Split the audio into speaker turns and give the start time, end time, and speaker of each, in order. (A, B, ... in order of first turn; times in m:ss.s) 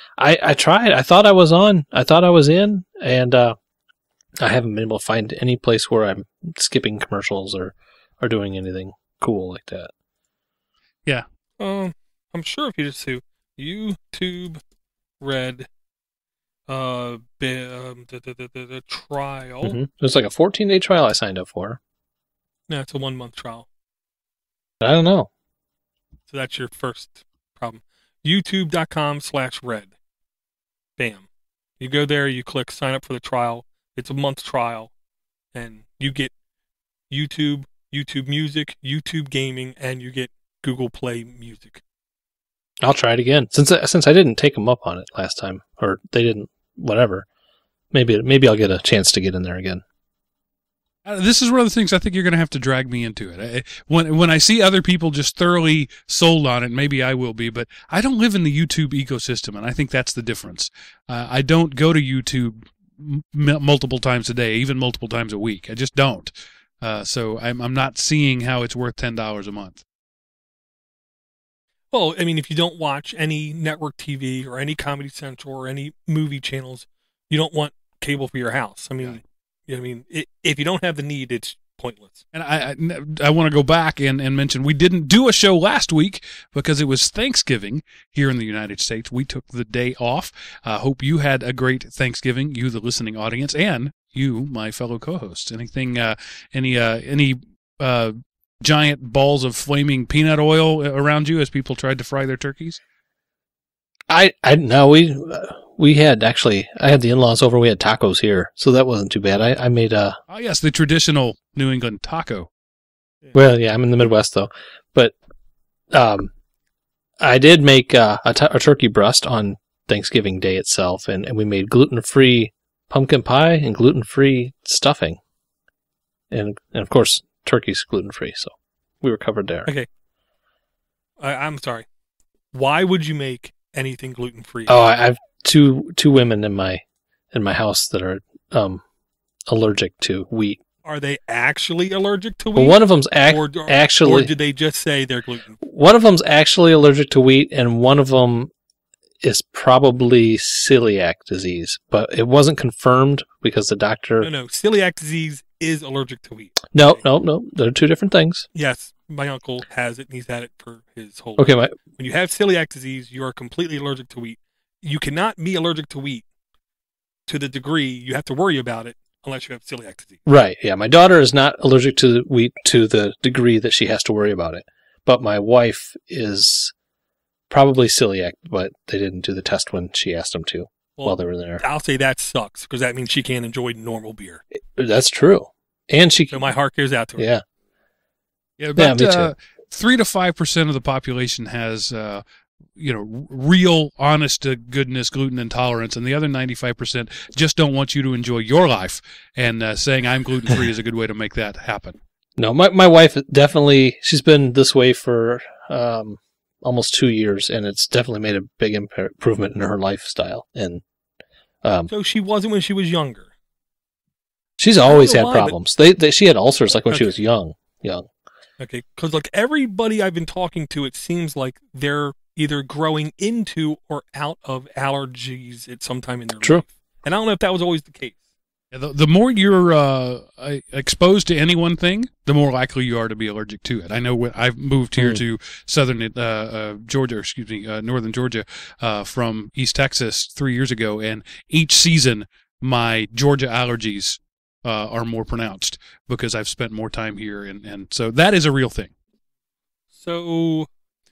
0:00.2-0:03.6 A
0:04.4-0:09.9 A
0:11.6-0:14.6 B
0:15.2-0:15.7 B
0:16.7-0:19.8 B
0:19.6-0:21.8 A
0:22.7-0:23.7 B
0:24.8-0:25.3 A
0:26.3-0:29.9 B
0:31.0-0:31.3 B
0:31.8-0:34.9 B
0:35.5-0:36.3 B
0:37.1-0:41.8 B
0:42.8-0:47.3 A
0:47.9-0:49.8 A
0:51.0-1:09.8 C
1:11.9-1:22.2 B
1:22.3-1:42.8 C
1:44.1-1:50.2 A
1:50.3-1:52.5 C
1:53.3-1:55.2 A
1:55.9-1:56.3 A
1:57.2-2:05.2 A
2:06.3-2:09.7 A
2:11.2-2:11.9 B
2:12.5-2:14.8 B
2:14.7-2:18.8 A
2:19.5-2:20.6 A
2:20.8-2:25.6 B
2:22.6-2:24.3 A
2:25.6-2:28.5 A
2:29.2-2:34.3 A
2:34.2-2:37.0 B
2:36.7-2:38.5 A
2:38.5-2:46.3 B
2:41.4-2:41.7 A
2:47.3-2:50.2 B
2:50.3-2:56.7 A
2:57.5-3:01.6 A
3:01.0-3:04.4 B
3:04.8-3:06.5 A
3:06.3-3:07.3 B
3:07.2-3:07.4 A
3:08.6-3:12.2 C
3:08.8-3:09.3 A
3:12.8-3:22.0 C
3:22.4-3:30.8 A
3:31.6-3:31.9 A
3:31.9-3:33.3 B
3:34.6-3:38.1 A
3:34.8-3:35.6 B
3:36.9-3:37.2 B
3:38.6-3:48.2 B
3:48.7-4:08.9 C
4:10.0-4:10.7 B